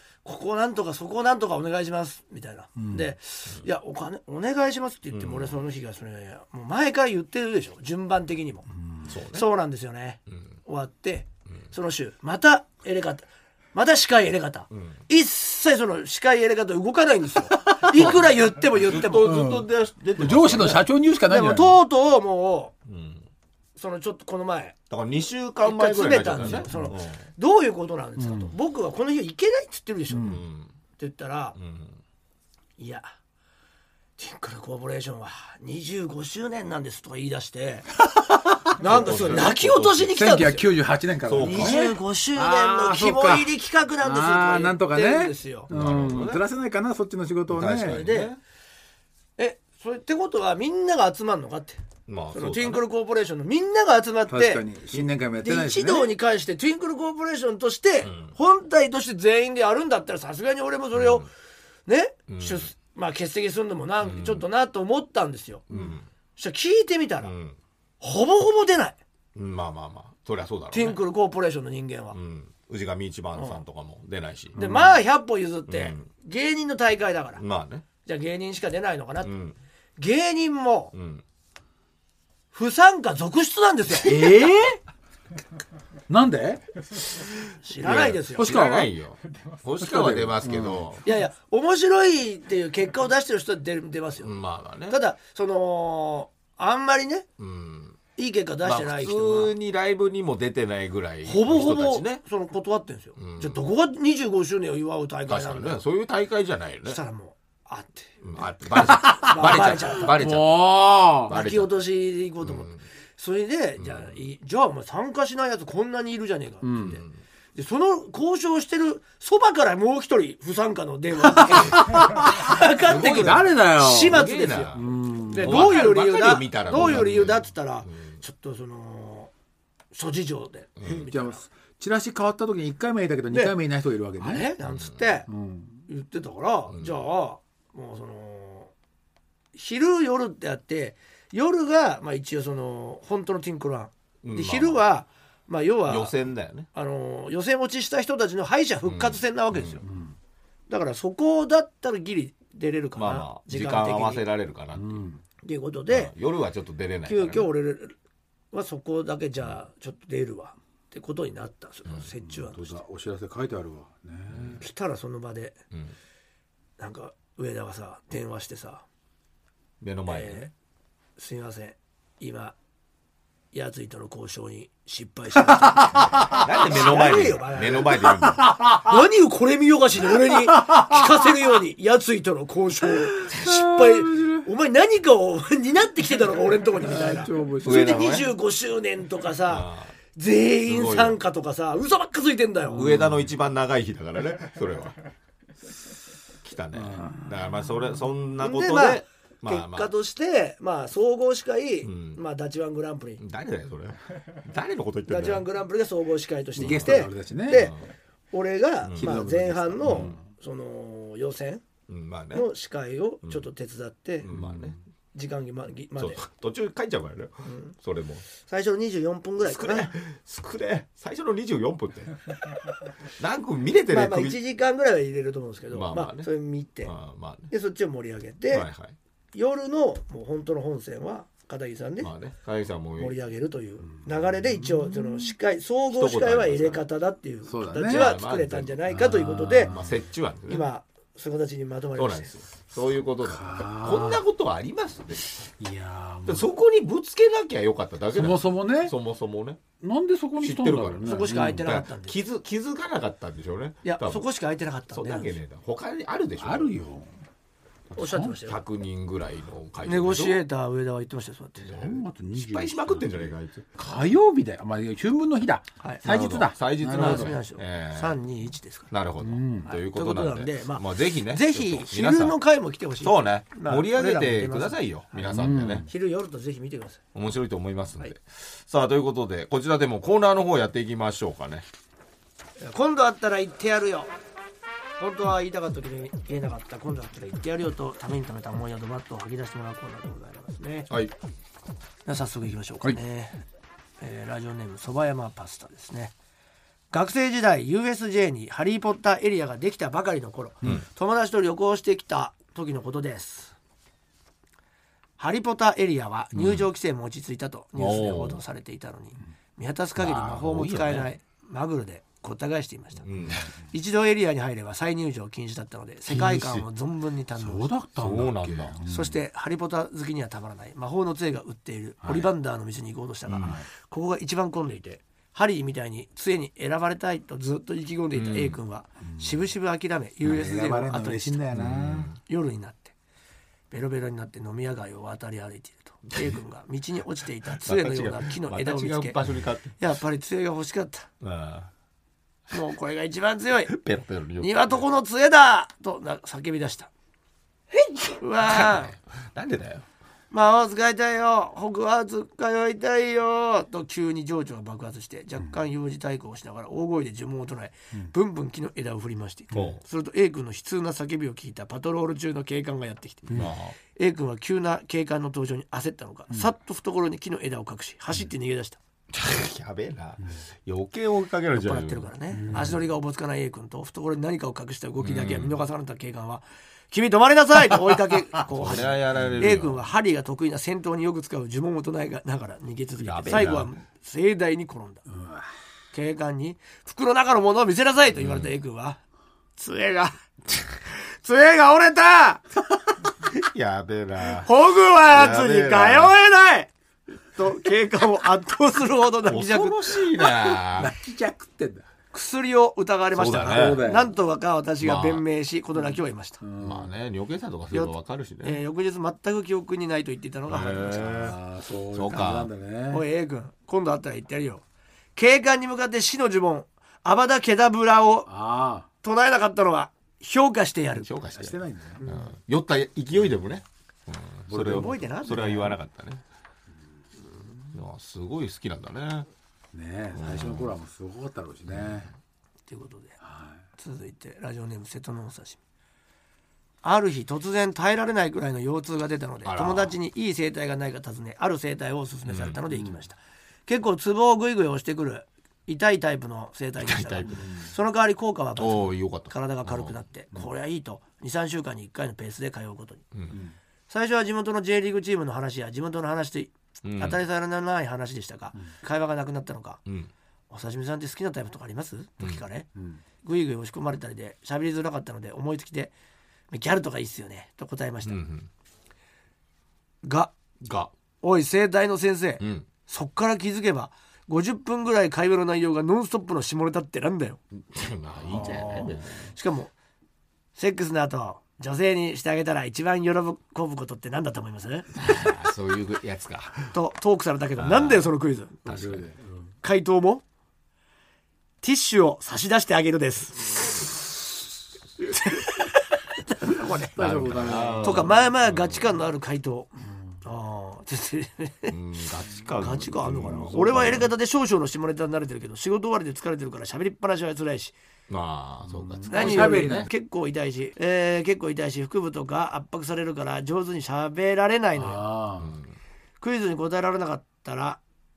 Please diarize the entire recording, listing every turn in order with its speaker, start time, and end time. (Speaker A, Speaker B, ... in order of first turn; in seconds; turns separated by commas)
Speaker A: 0.2-8.7, Speaker B: 2.8-3.1, Speaker C: 5.1-5.6, Speaker B: 8.8-9.1, Speaker C: 9.1-9.5, Speaker A: 9.3-19.3, Speaker C: 14.7-15.0, Speaker B: 17.6-18.0, Speaker C: 17.9-20.9, Speaker B: 19.2-21.8, Speaker A: 21.3-22.7, Speaker C: 22.9-23.2, Speaker A: 23.7-24.8, Speaker C: 24.9-27.2, Speaker A: 25.6-30.4, Speaker B: 26.4-26.9, Speaker B: 28.2-28.5, Speaker B: 30.1-30.4, Speaker C: 30.2-30.7, Speaker A: 31.0-31.6, Speaker C: 31.6-32.0, Speaker A: 32.8-33.1, Speaker A: 34.2-37.9, Speaker B: 38.2-39.5, Speaker A: 38.8-40.7, Speaker C: 38.8-40.1, Speaker B: 40.1-48.0, Speaker C: 41.2-41.8, Speaker A: 41.4-45.7, Speaker C: 45.7-46.4, Speaker C: 47.5-48.4, Speaker A: 47.8-48.4, Speaker A: 49.4-54.6, Speaker C: 52.1-52.9, Speaker B: 54.3-56.1, Speaker A: 55.4-61.3, Speaker C: 58.0-58.3, Speaker C: 60.9-61.2, Speaker A: 61.9-65.6, Speaker C: 62.3-62.7, Speaker C: 64.0-64.4, Speaker C: 65.7-66.1, Speaker A: 66.3-67.3, Speaker C: 67.2-67.6, Speaker A: 68.0-69.0, Speaker C: 69.3-71.0, Speaker A: 70.7-72.2, Speaker C: 72.1-74.6, Speaker A: 73.3-73.6, Speaker B: 74.5-75.0, Speaker A: 74.5-77.4, Speaker C: 75.7-76.0, Speaker C: 77.3-77.8, Speaker A: 78.0-79.3, Speaker C: 79.2-79.6, Speaker A: 80.0-80.9, Speaker C: 80.9-81.2, Speaker A: 82.5-84.5, Speaker B: 84.0-84.8, Speaker B: 86.1-86.7, Speaker A: 87.6-88.5, Speaker C: 87.8-91.0, Speaker B: 88.3-88.9, Speaker B: 89.8-90.9, Speaker A: 91.0-94.3, Speaker C: 94.2-95.0, Speaker A: 94.9-97.3, Speaker C: 97.4-98.0, Speaker A: 98.2-99.5, Speaker C: 98.6-102.2, Speaker A: 101.2-105.8, Speaker C: 103.2-103.6, Speaker C: 105.2-107.0, Speaker A: 106.8-108.2, Speaker C: 108.2-110.7, Speaker B: 108.8-111.3, Speaker A: 109.0-110.2, Speaker C: 111.3-111.8, Speaker A: 111.3-124.8, Speaker C: 112.4-112.8, Speaker C: 113.8-114.2, Speaker B: 116.6-117.0, Speaker C: 116.8-117.2, Speaker B: 121.2-124.2, Speaker C: 122.8-128.2, Speaker B: 124.7-125.8, Speaker A: 125.3-129.3, Speaker B: 126.7-127.1, Speaker A: 129.9-131.4, Speaker C: 130.8-131.1, Speaker B: 130.9-134.5, Speaker A: 133.3-133.6, Speaker A: 134.2-135.3, Speaker C: 134.6-135.1, Speaker B: 135.3-135.8, Speaker A: 135.8-138.7, Speaker C: 136.7-137.0, Speaker A: 139.5-146.2, Speaker C: 144.2-144.8, Speaker C: 145.8-146.7, Speaker A: 146.7-149.8, Speaker C: 148.8-149.8, Speaker B: 149.8-150.2, Speaker A: 150.7-154.2, Speaker C: 152.9-155.0, Speaker B: 154.7-155.2, Speaker A: 155.4-156.1, Speaker C: 155.9-157.5, Speaker A: 157.1-157.9, Speaker A: 158.5-162.8, Speaker B: 162.2-164.6, Speaker C: 164.3-164.6, Speaker A: 164.6-165.6, Speaker A: 166.8-168.8, Speaker C: 169.8-170.5, Speaker A: 170.1-170.5, Speaker A: 171.2-172.6, Speaker A: 173.5-178.0, Speaker B: 175.9-176.3, Speaker C: 176.3-178.4, Speaker B: 177.9-178.2, Speaker A: 178.6-192.9, Speaker B: 183.2-184.4, Speaker B: 186.8-187.9, Speaker C: 187.6-188.3, Speaker C: 189.5-189.9, Speaker C: 190.6-191.2, Speaker B: 192.7-193.3, Speaker C: 192.7-195.0, Speaker C: 196.4-199.9, Speaker B: 196.7-197.5, Speaker A: 198.4-203.2, Speaker C: 201.8-202.2, Speaker C: 203.2-205.5, Speaker A: 205.1-207.8, Speaker B: 206.5-207.7, Speaker C: 206.6-207.8, Speaker A: 208.3-211.6, Speaker C: 208.8-209.2, Speaker B: 209.0-210.2, Speaker C: 209.8-210.1, Speaker C: 211.9-212.5, Speaker A: 212.3-214.3, Speaker C: 214.2-214.8, Speaker B: 214.3-214.8, Speaker A: 215.1-216.2, Speaker C: 216.0-218.3, Speaker A: 217.4-217.7, Speaker A: 218.3-219.9, Speaker C: 219.4-224.4, Speaker A: 223.9-226.9, Speaker C: 225.7-226.3, Speaker C: 226.8-227.5, Speaker A: 227.5-228.7, Speaker C: 228.5-228.9, Speaker A: 229.3-232.1, Speaker C: 232.0-233.2, Speaker A: 233.0-239.7, Speaker B: 233.9-235.3, Speaker C: 235.9-236.8, Speaker B: 237.4-238.1, Speaker C: 237.8-238.8, Speaker B: 238.9-240.0, Speaker C: 239.6-240.7, Speaker A: 240.4-242.4, Speaker C: 241.9-245.5, Speaker B: 243.2-244.2, Speaker B: 245.6-246.5, Speaker C: 246.2-249.6, Speaker B: 248.1-249.0, Speaker B: 249.8-251.7, Speaker C: 250.4-254.3, Speaker A: 251.0-252.2, Speaker A: 253.8-255.3, Speaker C: 254.9-256.8, Speaker B: 256.4-257.2, Speaker C: 257.9-260.4, Speaker A: 257.9-258.6, Speaker B: 258.0-258.3, Speaker A: 259.8-261.9, Speaker C: 261.6-263.7, Speaker B: 261.7-267.4, Speaker A: 265.8-266.1, Speaker C: 266.0-268.2, Speaker A: 266.9-268.9, Speaker C: 268.9-272.4, Speaker B: 269.2-269.7, Speaker A: 269.7-277.0, Speaker C: 273.0-275.9, Speaker B: 275.2-275.9, Speaker C: 277.1-281.6, Speaker A: 282.6-284.1, Speaker A: 285.0-290.9, Speaker C: 290.9-291.1, Speaker A: 292.1-293.4, Speaker A: 294.0-296.1, Speaker A: 296.9-303.5, Speaker A: 305.2-313.1, Speaker C: 306.3-306.7, Speaker C: 307.8-308.4, Speaker C: 309.9-311.1, Speaker C: 313.0-313.5, Speaker A: 313.7-317.7, Speaker B: 316.1-316.6, Speaker C: 316.3-316.6, Speaker B: 317.3-319.2, Speaker C: 317.9-318.8, Speaker A: 318.8-331.4, Speaker B: 322.0-322.3, Speaker C: 323.3-323.6, Speaker B: 323.4-323.7, Speaker C: 328.1-328.6, Speaker B: 329.0-329.4, Speaker B: 330.2-332.1, Speaker C: 331.5-332.2, Speaker A: 332.2-332.9, Speaker A: 333.7-339.2, Speaker C: 337.5-339.8, Speaker A: 339.8-341.1, Speaker C: 341.2-341.7, Speaker A: 342.5-343.7, Speaker C: 343.6-344.8, Speaker A: 344.4-346.9, Speaker A: 348.1-348.9, Speaker C: 348.4-349.8, Speaker A: 350.3-363.4, Speaker C: 359.5-359.8, Speaker C: 363.3-363.8, Speaker A: 363.9-368.8, Speaker C: 369.1-372.1, Speaker A: 371.5-385.0, Speaker B: 372.3-372.8, Speaker C: 375.0-375.6, Speaker C: 378.5-379.8, Speaker B: 379.2-379.5, Speaker C: 383.0-383.7, Speaker B: 385.1-385.4, Speaker A: 385.9-389.0, Speaker C: 388.1-388.5, Speaker A: 389.6-392.4, Speaker C: 393.2-394.5, Speaker A: 394.3-396.7, Speaker C: 395.1-396.1, Speaker A: 397.3-400.6, Speaker C: 399.2-400.9, Speaker B: 400.7-401.9, Speaker A: 402.1-406.4, Speaker C: 403.1-403.9, Speaker B: 403.2-404.1, Speaker C: 404.8-405.2, Speaker B: 405.8-406.9, Speaker C: 406.6-408.6, Speaker A: 407.7-411.0, Speaker C: 410.5-411.4, Speaker B: 410.6-413.0, Speaker C: 411.9-412.5, Speaker A: 412.9-414.6, Speaker A: 415.1-418.3, Speaker B: 418.2-418.9, Speaker A: 419.0-421.2, Speaker C: 420.9-426.2, Speaker B: 421.3-422.0, Speaker A: 422.0-422.3, Speaker B: 424.5-425.0, Speaker A: 424.6-425.7, Speaker C: 427.7-429.3, Speaker B: 429.7-432.1, Speaker C: 430.1-430.8, Speaker C: 431.7-432.1, Speaker A: 432.7-433.1, Speaker B: 433.2-433.6, Speaker A: 433.8-435.6, Speaker A: 436.8-453.0, Speaker C: 439.4-439.9, Speaker C: 442.2-442.6, Speaker B: 442.7-443.0, Speaker C: 446.8-447.4, Speaker B: 447.3-447.7, Speaker C: 448.6-450.0, Speaker C: 453.1-453.4, Speaker A: 453.9-459.8, Speaker C: 456.8-457.2, Speaker C: 459.9-460.1, Speaker A: 460.5-462.7, Speaker A: 463.2-465.9, Speaker A: 466.5-468.2, Speaker C: 468.0-468.5, Speaker A: 470.0-470.3, Speaker C: 470.6-470.9, Speaker A: 471.2-477.4, Speaker C: 472.4-472.7, Speaker C: 477.5-479.3, Speaker A: 478.3-479.7, Speaker B: 478.3-478.9, Speaker A: 480.5-484.9, Speaker C: 484.9-486.8, Speaker A: 486.7-488.6, Speaker C: 487.6-488.1, Speaker C: 488.6-489.1, Speaker B: 488.6-489.5, Speaker A: 489.6-490.2, Speaker A: 491.6-494.0, Speaker A: 495.0-496.9, Speaker B: 496.9-498.2, Speaker C: 496.9-498.9, Speaker A: 497.8-501.8, Speaker C: 501.7-504.1, Speaker A: 502.6-507.7, Speaker C: 508.1-509.9, Speaker B: 508.6-509.9, Speaker A: 509.1-515.0, Speaker B: 514.7-515.5, Speaker C: 515.4-515.7, Speaker A: 516.2-517.8